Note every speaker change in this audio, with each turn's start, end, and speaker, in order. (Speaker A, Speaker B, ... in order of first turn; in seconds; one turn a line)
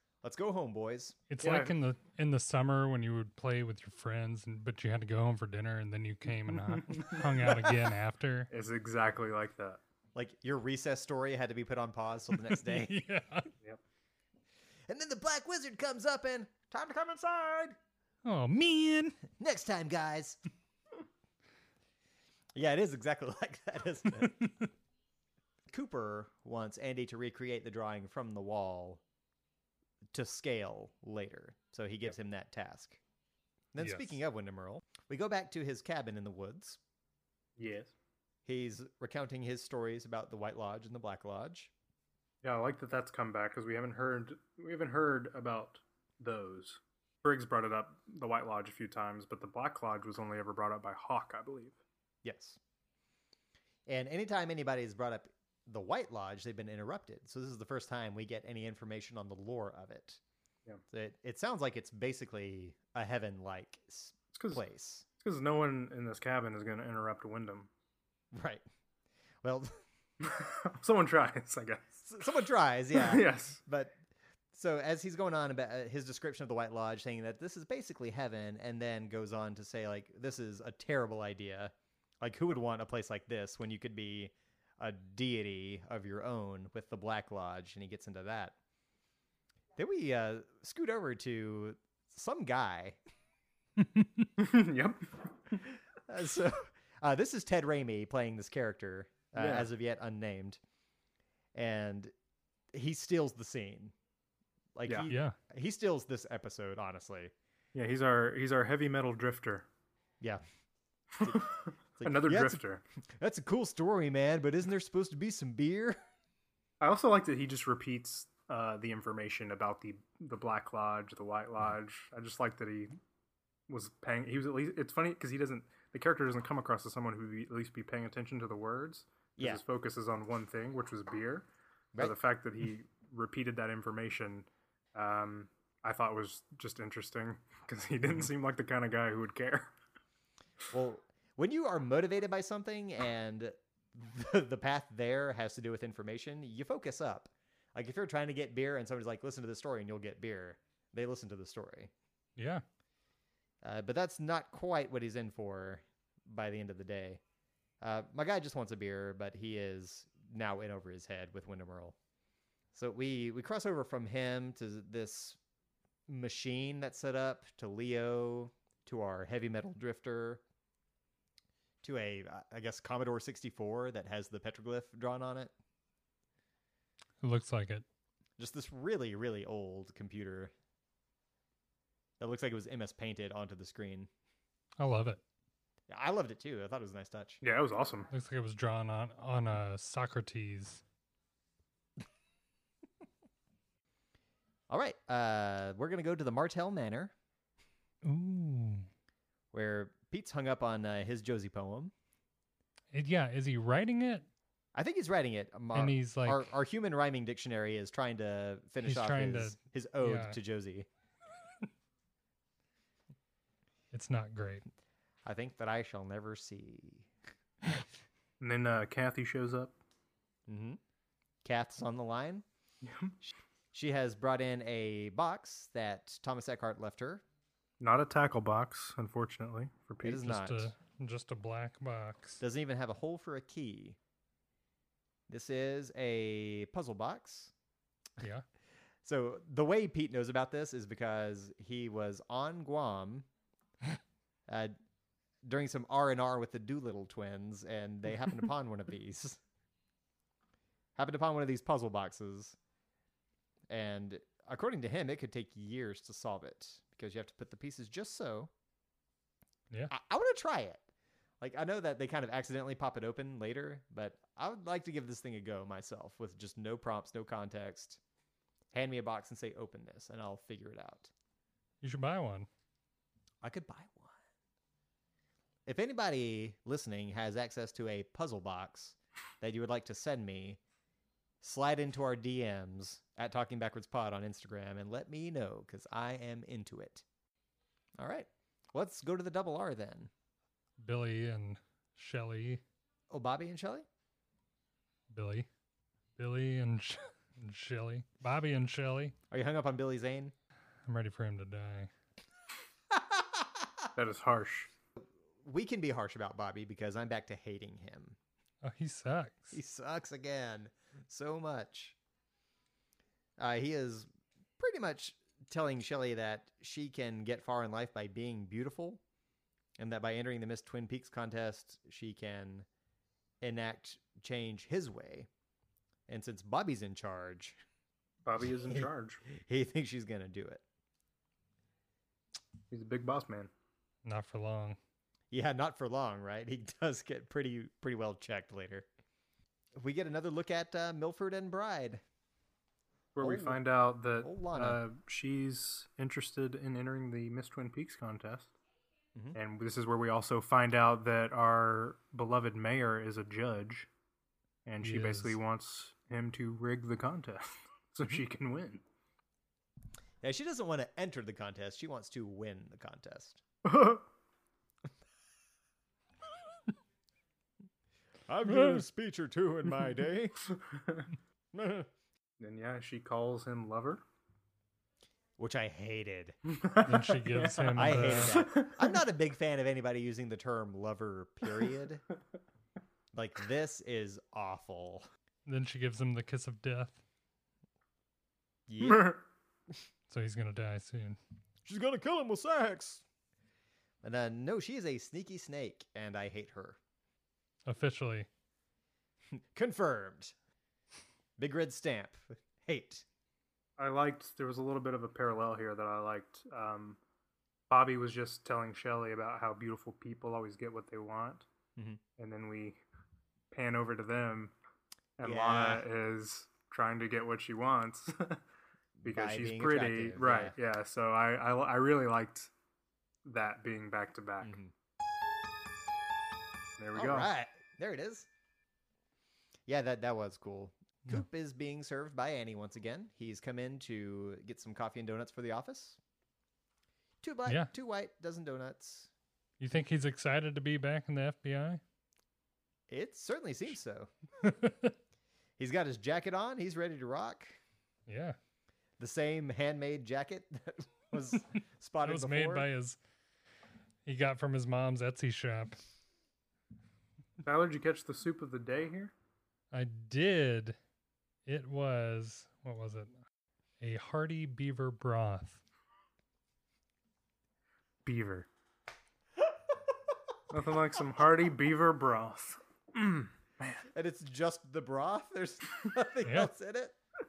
Speaker A: 0.2-1.2
Speaker B: 1.3-8.5
Speaker C: 1.4-1.7
Speaker C: 6.4-7.2
Speaker C: 8.5-9.8
Speaker A: 10.1-13.0
Speaker B: 12.4-13.5
Speaker A: 14.9-17.8
Speaker B: 18.2-19.2
Speaker A: 19.3-20.4
Speaker A: 22.5-24.5
Speaker B: 24.2-24.7
Speaker A: 25.7-29.0
Speaker A: 30.1-33.0
Speaker A: 33.7-36.8
Speaker B: 33.8-34.2
Speaker C: 37.6-37.9
Speaker A: 38.5-41.7
Speaker C: 42.4-51.8
Speaker A: 52.2-52.6
Speaker A: 53.9-60.2
Speaker A: 60.9-65.0
Speaker C: 64.3-64.6
Speaker C: 65.2-67.7
Speaker A: 68.3-68.6
Speaker A: 69.4-69.8
Speaker C: 70.2-72.1
Speaker A: 72.0-74.0
Speaker C: 72.9-73.6
Speaker A: 74.5-88.6
Speaker A: 89.8-93.0
Speaker C: 94.4-95.6
Speaker A: 96.1-100.6
Speaker C: 99.3-99.7
Speaker A: 101.5-102.1
Speaker A: 102.7-103.9
Speaker A: 104.7-107.3
Speaker B: 105.1-105.3
Speaker C: 107.7-109.7
Speaker C: 111.2-112.8
Speaker A: 112.0-112.6
Speaker A: 113.1-116.0
Speaker C: 116.8-122.9
Speaker C: 123.7-131.5
Speaker A: 129.4-129.6
Speaker C: 132.0-139.7
Speaker A: 140.7-151.9
Speaker B: 152.4-152.6
Speaker A: 153.6-157.2
Speaker A: 157.8-161.9
Speaker A: 162.7-165.4
Speaker A: 166.1-170.4
Speaker A: 171.8-175.5
Speaker B: 177.2-177.8
Speaker A: 178.4-180.5
Speaker A: 182.2-184.1
Speaker B: 184.8-185.2
Speaker A: 185.9-187.4
Speaker C: 187.4-188.1
Speaker B: 188.1-190.8
Speaker A: 194.7-197.1
Speaker B: 198.0-198.9
Speaker A: 199.5-201.9
Speaker B: 202.9-204.3
Speaker A: 204.7-210.9
Speaker B: 205.7-206.5
Speaker B: 208.8-210.4
Speaker B: 213.9-214.7
Speaker A: 215.2-217.1
Speaker C: 218.4-219.7
Speaker A: 220.5-220.8
Speaker A: 221.4-222.4
Speaker C: 222.8-223.2
Speaker A: 223.2-227.2
Speaker C: 227.8-230.2
Speaker A: 230.0-230.7
Speaker B: 230.1-232.4
Speaker A: 232.4-234.0
Speaker A: 235.3-237.5
Speaker B: 238.2-238.4
Speaker A: 239.0-243.3
Speaker A: 244.5-244.7
Speaker A: 245.4-249.4
Speaker A: 250.9-252.6
Speaker A: 253.7-258.5
Speaker A: 259.9-260.8
Speaker A: 261.4-268.0
Speaker A: 268.7-271.1
Speaker B: 271.8-272.5
Speaker A: 273.4-274.1
Speaker A: 275.6-280.6
Speaker A: 281.4-287.0
Speaker A: 288.0-290.1
Speaker B: 290.8-292.6
Speaker A: 293.1-293.9
Speaker B: 295.1-295.5
Speaker B: 296.2-299.1
Speaker A: 299.3-300.3
Speaker B: 300.9-301.9
Speaker A: 302.9-303.6
Speaker C: 303.9-304.7
Speaker A: 305.0-308.2
Speaker B: 308.6-309.6
Speaker A: 309.5-311.9
Speaker A: 313.4-319.0
Speaker A: 319.8-322.7
Speaker A: 323.4-325.3
Speaker A: 326.1-327.6
Speaker C: 328.2-329.2
Speaker A: 328.7-330.6
Speaker C: 332.7-333.5
Speaker B: 334.0-334.8
Speaker A: 335.3-338.9
Speaker A: 339.8-342.0
Speaker C: 343.1-348.5
Speaker A: 343.2-343.6
Speaker A: 344.2-344.8
Speaker C: 349.3-353.9
Speaker C: 354.6-358.8
Speaker B: 354.8-355.4
Speaker A: 360.2-363.4
Speaker C: 363.6-364.1
Speaker A: 368.3-370.5
Speaker C: 370.6-371.1
Speaker A: 371.5-371.9
Speaker C: 372.4-374.0
Speaker A: 375.4-376.4
Speaker C: 376.4-379.0
Speaker B: 376.9-378.4
Speaker A: 377.8-382.0
Speaker A: 383.1-385.1
Speaker B: 385.4-387.0
Speaker A: 388.7-389.2
Speaker C: 388.8-389.2
Speaker B: 390.1-391.2
Speaker A: 391.6-393.0
Speaker A: 394.0-396.8
Speaker B: 397.7-398.3
Speaker A: 399.4-400.3
Speaker A: 401.4-403.0
Speaker C: 403.8-407.0
Speaker C: 407.7-411.4
Speaker A: 411.8-412.0
Speaker C: 412.2-412.8
Speaker C: 413.5-414.5
Speaker C: 415.2-418.4
Speaker A: 415.2-415.9
Speaker A: 419.0-420.6
Speaker C: 419.0-422.5
Speaker C: 423.2-424.6
Speaker A: 424.4-424.7
Speaker C: 426.8-427.3
Speaker A: 426.9-428.3
Speaker A: 429.7-436.0
Speaker A: 437.2-439.1
Speaker B: 437.4-437.7
Speaker B: 439.6-441.8
Speaker A: 442.9-444.1
Speaker B: 444.4-444.9
Speaker A: 445.6-447.6
Speaker B: 448.1-448.4
Speaker A: 449.0-452.7
Speaker B: 452.0-453.0
Speaker B: 454.1-455.8
Speaker C: 457.4-459.1
Speaker B: 459.7-460.8
Speaker B: 461.4-463.1
Speaker B: 463.8-465.6
Speaker C: 468.0-468.5
Speaker C: 470.5-473.8
Speaker A: 473.9-476.9
Speaker B: 476.2-476.5